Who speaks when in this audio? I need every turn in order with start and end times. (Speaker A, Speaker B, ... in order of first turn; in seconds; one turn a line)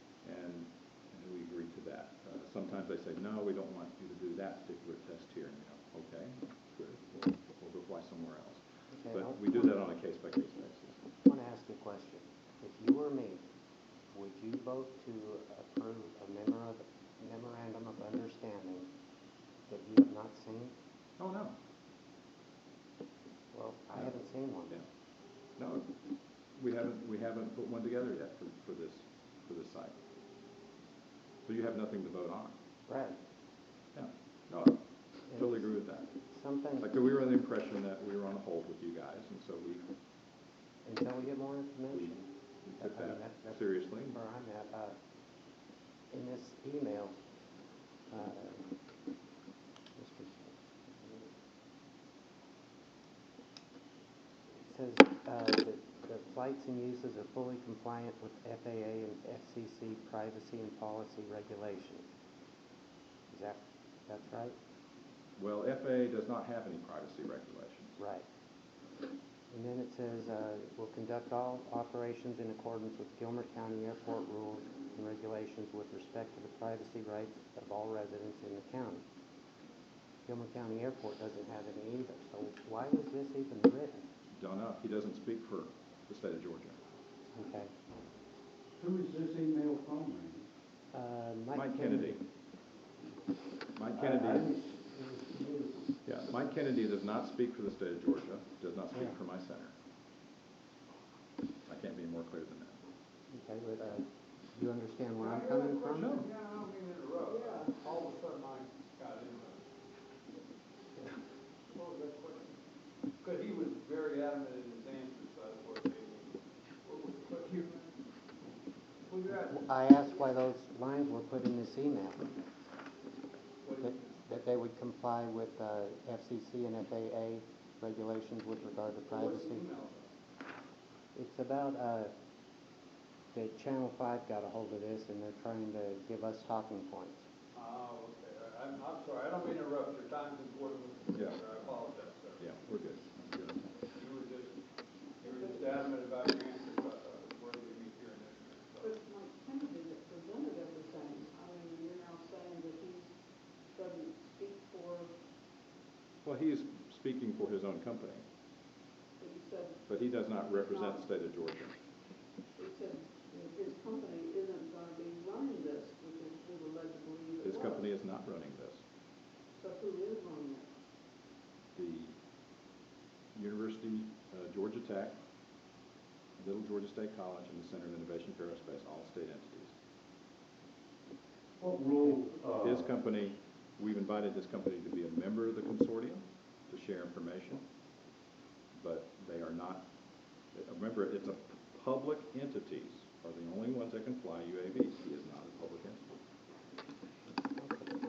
Speaker A: 0.2-11.0
Speaker B: 8.9-9.7
Speaker B: 11.2-13.4
Speaker B: 14.1-18.9
Speaker B: 19.7-20.7
Speaker A: 21.2-21.6
Speaker B: 23.5-24.8
Speaker A: 25.6-25.9
Speaker A: 26.6-30.0
Speaker A: 31.4-32.5
Speaker B: 32.9-33.2
Speaker A: 33.9-36.1
Speaker B: 35.3-35.6
Speaker B: 36.3-36.9
Speaker A: 36.8-39.9
Speaker B: 40.8-42.3
Speaker A: 42.6-44.2
Speaker B: 42.8-45.0
Speaker B: 46.1-47.1
Speaker B: 48.1-48.6
Speaker B: 50.0-51.3
Speaker B: 54.6-62.1
Speaker B: 63.3-64.5
Speaker A: 65.4-68.0
Speaker B: 68.0-68.2
Speaker B: 69.5-79.0
Speaker B: 80.2-84.0
Speaker A: 84.3-86.8
Speaker B: 87.3-87.7
Speaker C: 88.8-90.5
Speaker B: 90.9-92.2
Speaker A: 91.5-92.2
Speaker A: 93.8-94.5
Speaker C: 93.9-95.8
Speaker A: 96.0-99.7
Speaker A: 101.7-102.8
Speaker B: 103.3-106.2
Speaker D: 105.2-109.6
Speaker A: 106.0-106.2
Speaker E: 107.3-107.7
Speaker D: 111.7-112.6
Speaker D: 113.2-116.3
Speaker D: 116.8-117.8
Speaker D: 119.1-119.7
Speaker B: 119.3-122.4
Speaker D: 123.6-124.3
Speaker B: 123.8-129.7
Speaker D: 129.1-130.1
Speaker B: 131.1-132.1
Speaker B: 133.3-137.2
Speaker D: 137.5-142.5
Speaker A: 142.4-143.7
Speaker D: 143.9-144.6
Speaker D: 145.2-148.9
Speaker E: 148.8-153.1
Speaker E: 153.7-155.1
Speaker A: 156.2-158.2
Speaker E: 159.2-159.8
Speaker A: 159.9-161.8
Speaker E: 160.6-161.0
Speaker E: 162.6-167.9
Speaker A: 167.4-168.8
Speaker E: 169.6-170.7
Speaker A: 171.8-172.1
Speaker A: 173.3-175.2
Speaker A: 176.4-179.7
Speaker C: 181.6-182.9
Speaker A: 182.1-187.6
Speaker A: 188.8-189.8
Speaker A: 190.5-196.0
Speaker B: 197.6-197.9